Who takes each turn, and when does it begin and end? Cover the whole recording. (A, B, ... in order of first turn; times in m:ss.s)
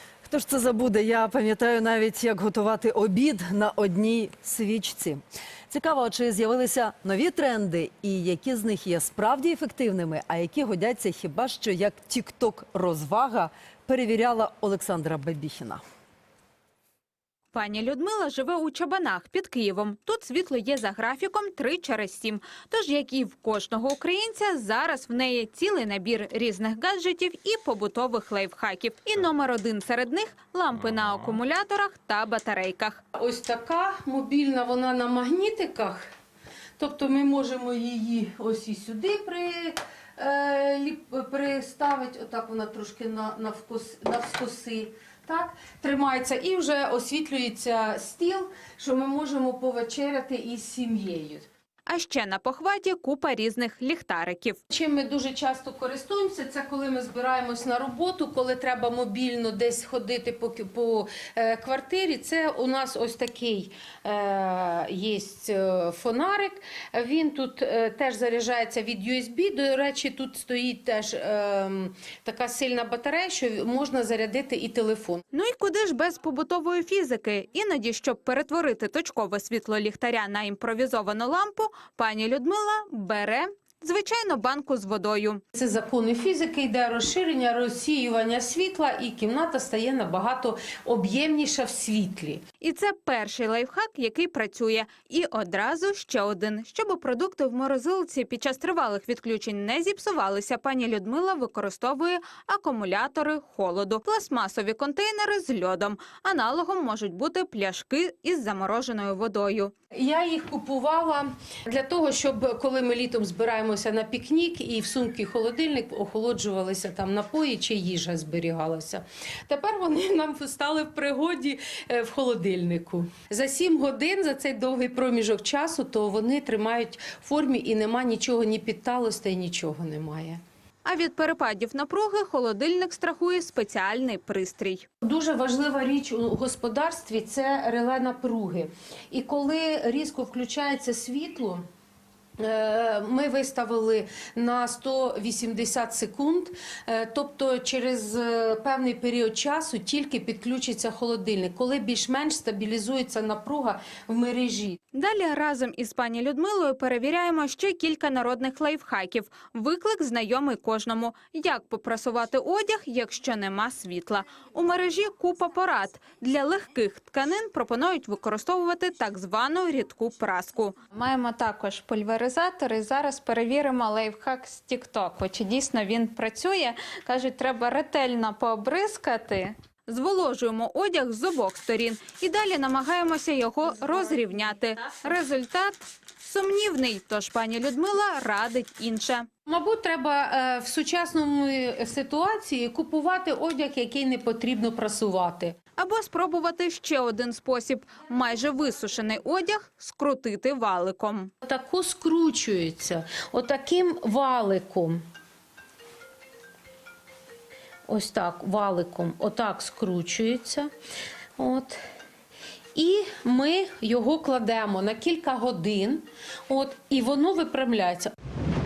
0:00.2-0:15.8 A
0:17.5-0:33.0 B
0:33.2-0:36.1 C
0:36.8-0:51.5 C
0:51.9-0:54.6 B
0:54.7-1:15.2 C
1:15.3-1:25.4 B
1:25.5-1:32.4 C
1:32.6-1:49.7 B
1:49.9-2:10.4 C
2:10.8-2:14.8 B
2:15.0-2:21.6 C
2:22.4-2:34.8 C
2:34.9-3:09.3 B
3:09.5-3:15.6 C
3:15.8-3:21.3 B
3:21.4-3:25.0 C
3:27.9-3:30.7 C
3:31.4-3:31.8 C
3:32.7-3:38.1 C